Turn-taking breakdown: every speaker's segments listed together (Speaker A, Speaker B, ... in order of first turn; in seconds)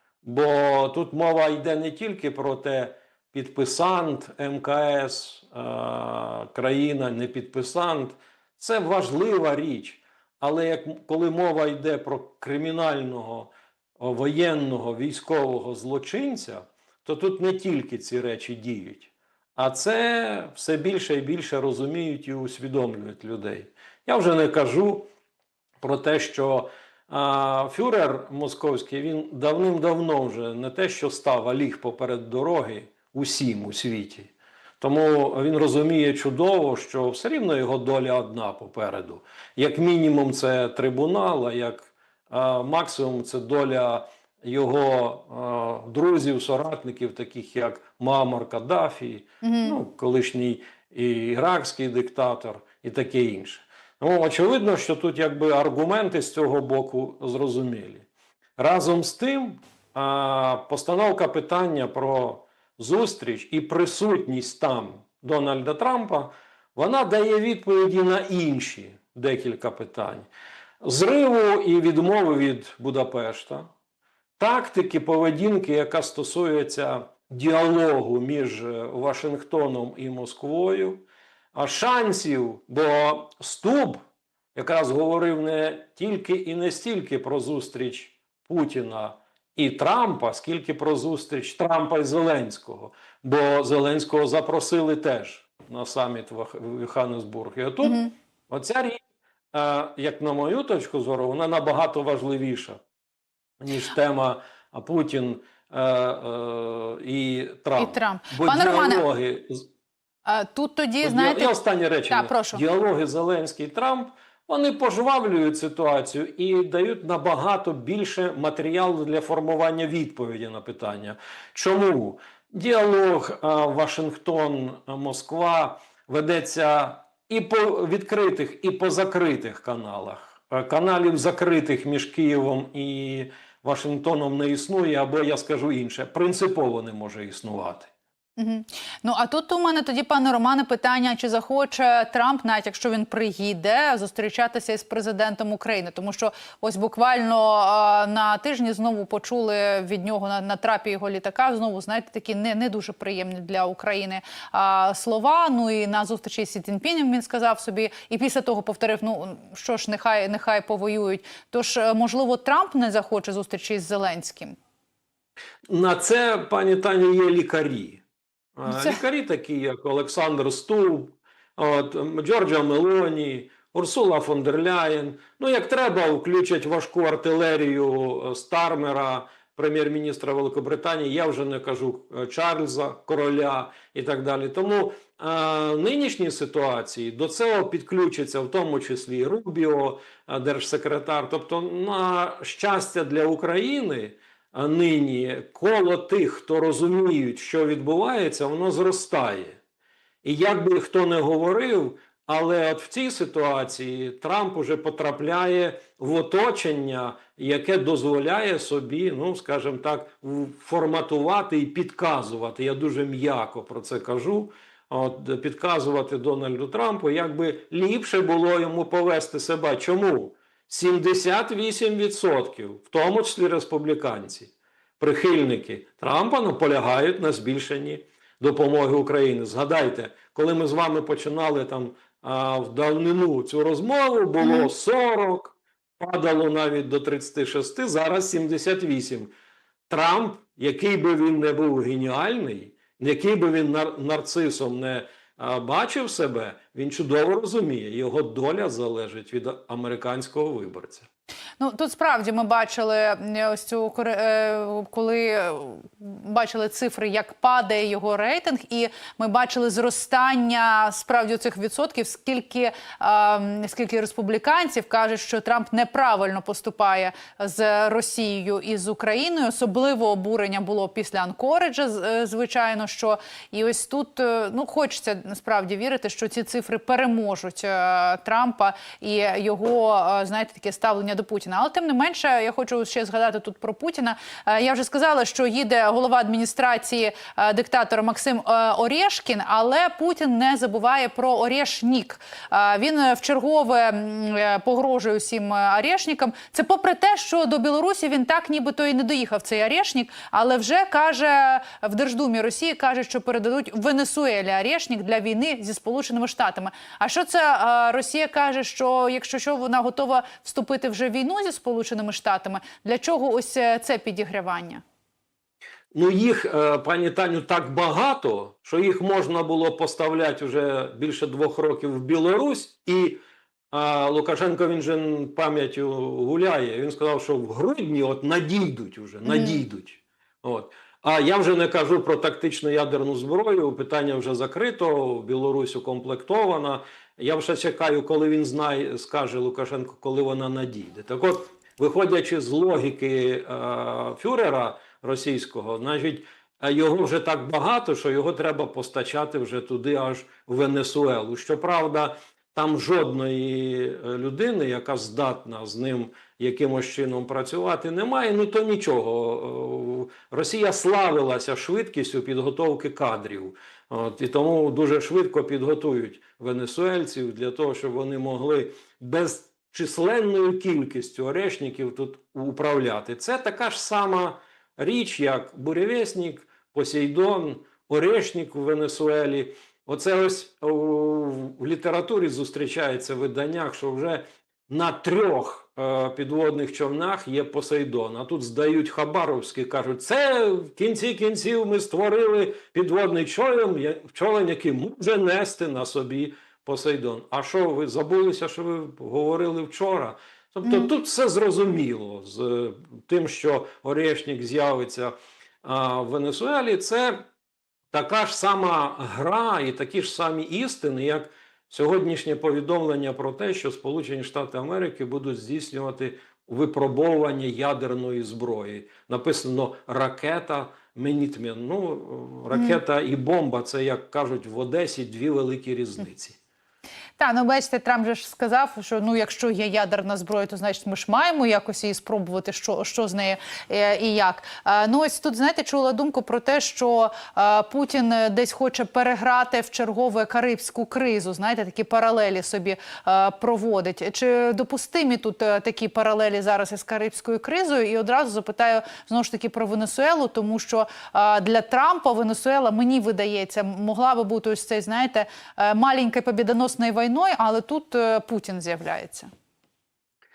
Speaker A: 0.2-25.1, 25.8-58.1, 58.6-70.3, 70.8-73.7, 74.4-84.0, 84.5-99.0, 99.5-102.8, 103.6-109.6, 111.0-137.9, 165.7-168.0, 168.6-199.6, 200.2-239.3, 239.9-251.1, 315.9-323.2, 323.7-407.2, 407.9-426.4
Speaker B: 49.4-49.8, 97.8-98.1, 107.8-109.0, 110.2-111.5, 112.1-112.6, 138.4-164.6, 168.7-169.0, 234.4-234.7, 251.6-314.8, 329.2-329.6, 400.6-400.9, 422.5-422.8, 427.2-459.3